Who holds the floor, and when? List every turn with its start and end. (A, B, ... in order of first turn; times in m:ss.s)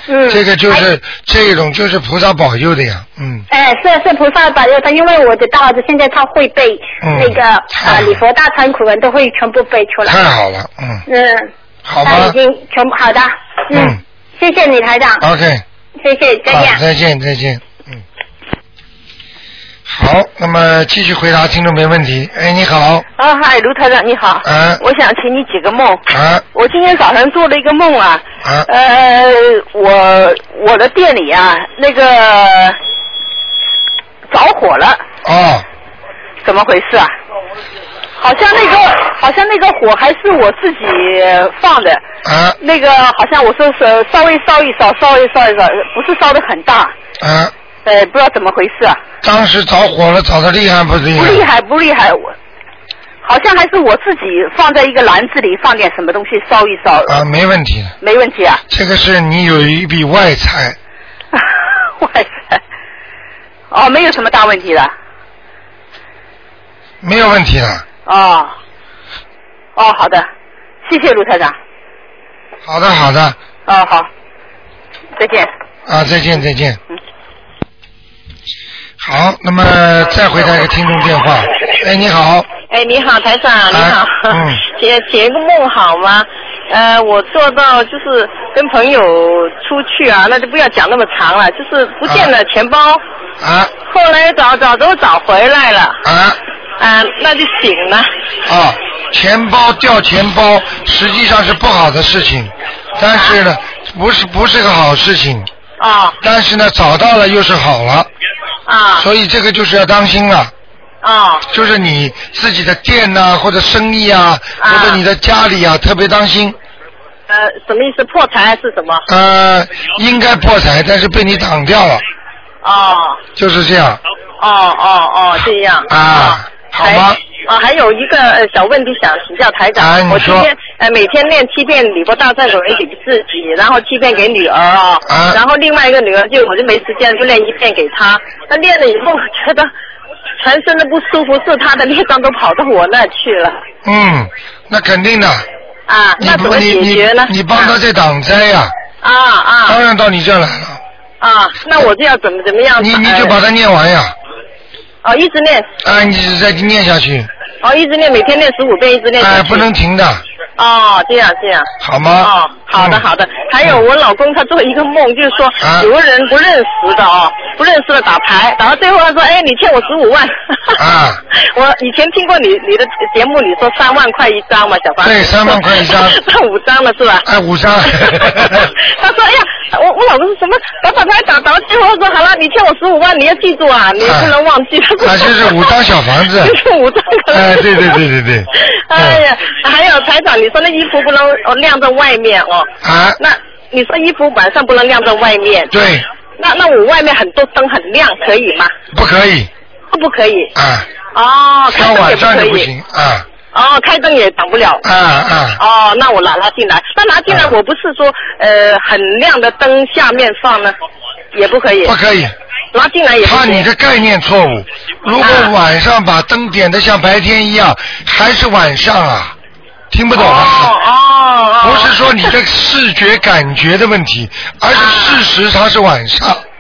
0:00.1-0:00.9 A
0:00.3-0:03.4 B
0:03.5-0:10.2 A
0:07.0-0:08.2 B
0:10.1-0:11.0 B
0:11.1-0:11.5 A
0:11.9-0:12.4 B
0:12.0-0:15.3 A
0:13.7-0:14.0 B
0:15.2-0:15.6 B
0:16.0-0:16.8 A
0:16.5-0:18.0 B
0:19.9-0:23.0 B
0:23.4-0:24.4 C
0:24.4-0:24.8 B
0:25.0-0:26.0 C
0:26.1-0:26.5 B
0:26.6-0:28.2 C
0:28.4-0:28.7 B
0:35.2-0:35.7 B
0:38.3-0:42.0 C
0:42.2-0:42.6 B
0:42.8-0:46.4 C
0:47.2-0:47.5 B
0:47.9-0:48.7 C
0:49.2-0:51.5 B
0:51.7-0:52.1 C
0:53.3-0:56.8 C
0:57.1-0:58.0 B
0:58.7-1:00.8 B
1:07.0-1:07.8 B
1:12.6-1:13.4 B
1:15.9-1:16.8 B
1:19.0-1:22.5 B
1:22.6-1:33.0 D
1:23.7-1:24.6 B
1:32.0-1:32.3 B
1:33.4-1:33.7 B
1:33.8-1:36.0 D
1:36.0-1:36.4 B
1:36.8-1:38.1 D
1:38.4-1:45.5 B
1:43.1-1:43.4 D
1:45.8-1:46.2 D
1:46.2-1:48.1 B
1:48.7-1:49.1 D
1:49.0-1:50.5 B
1:51.0-1:51.5 D
1:51.5-1:56.6 B
1:54.6-1:55.0 D
1:57.3-1:59.0 D
1:59.1-2:02.0 B
2:02.6-2:03.2 D
2:03.4-2:04.0 B
2:04.4-2:19.7 D
2:05.9-2:07.2 B
2:09.8-2:10.5 B
2:15.1-2:15.4 B
2:20.4-2:23.6 D
2:23.8-2:25.5 B
2:25.9-2:27.8 D
2:26.2-2:28.7 B
2:29.0-2:29.8 D
2:29.7-2:30.8 B
2:31.2-2:33.4 D
2:32.8-2:34.2 B
2:35.0-2:35.7 D
2:35.8-2:37.3 B
2:37.6-2:39.7 D
2:39.2-2:40.2 B
2:40.6-2:50.8 D
2:41.8-2:43.0 B
2:45.6-2:45.9 B
2:50.8-2:51.2 B
2:51.3-2:57.3 D
2:55.0-2:56.2 B
2:57.2-2:58.7 B
2:57.8-3:05.8 D
3:04.0-3:04.3 B
3:05.0-3:06.6 B
3:06.4-3:08.0 D
3:07.3-3:09.2 B
3:08.9-3:15.7 D
3:12.8-3:13.2 B
3:15.7-3:16.1 B
3:16.4-3:18.7 D
3:18.9-3:19.5 B
3:19.9-3:20.5 D
3:20.6-3:20.9 B
3:21.1-3:22.7 D
3:21.7-3:23.3 B
3:23.5-3:24.8 D
3:24.8-3:25.6 B
3:25.6-3:30.8 D
3:27.3-3:27.5 B
3:31.3-3:31.9 D
3:31.8-3:32.4 B
3:32.7-3:33.7 D
3:33.2-3:39.4 B
3:35.2-3:35.5 D
3:39.9-3:40.8 B
3:40.1-3:42.3 D
3:41.6-3:46.4 B
3:44.7-3:45.2 D